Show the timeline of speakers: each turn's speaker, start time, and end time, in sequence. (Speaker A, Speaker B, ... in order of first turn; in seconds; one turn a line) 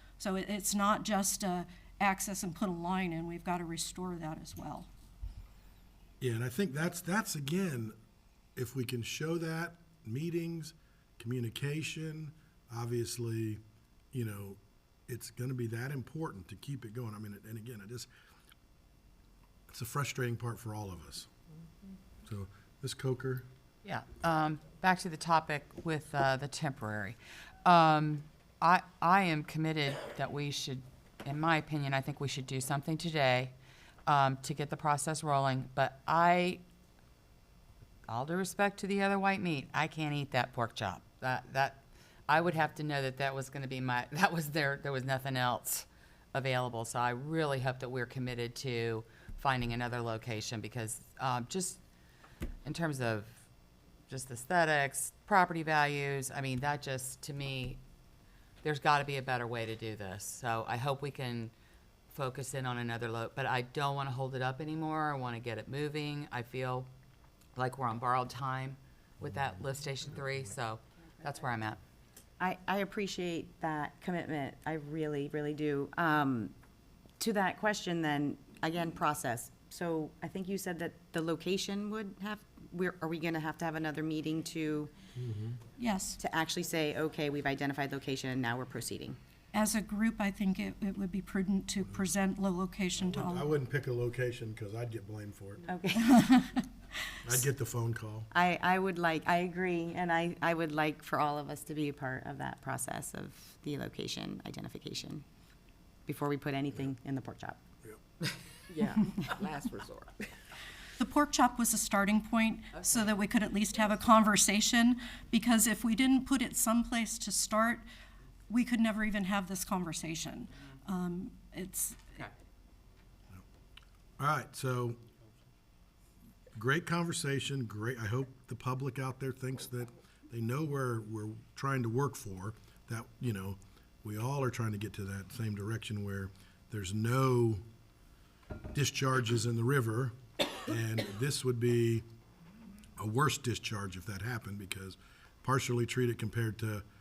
Speaker A: 0.2-4.9
Speaker B: 6.2-7.9
Speaker B: 8.6-13.6
Speaker B: 14.1-18.1
Speaker B: 19.7-21.3
Speaker B: 22.2-23.4
Speaker C: 23.8-33.5
Speaker C: 34.1-36.6
Speaker C: 38.1-51.8
Speaker C: 52.6-53.4
Speaker C: 54.1-57.8
Speaker C: 58.6-61.5
Speaker C: 62.1-66.9
Speaker C: 67.5-71.8
Speaker D: 72.4-76.5
Speaker D: 77.2-84.9
Speaker B: 85.2-85.6
Speaker A: 85.8-86.2
Speaker D: 86.2-89.2
Speaker A: 89.5-93.5
Speaker B: 93.1-95.7
Speaker D: 95.7-96.3
Speaker A: 96.1-96.6
Speaker B: 97.2-98.3
Speaker D: 98.3-105.2
Speaker D: 106.1-107.6
Speaker D: 108.8-109.9
Speaker A: 111.0-117.8
Speaker A: 118.5-122.2
Speaker B: 124.2-125.0
Speaker B: 126.5-137.6
Speaker B: 138.7-142.0
Speaker B: 143.0-146.8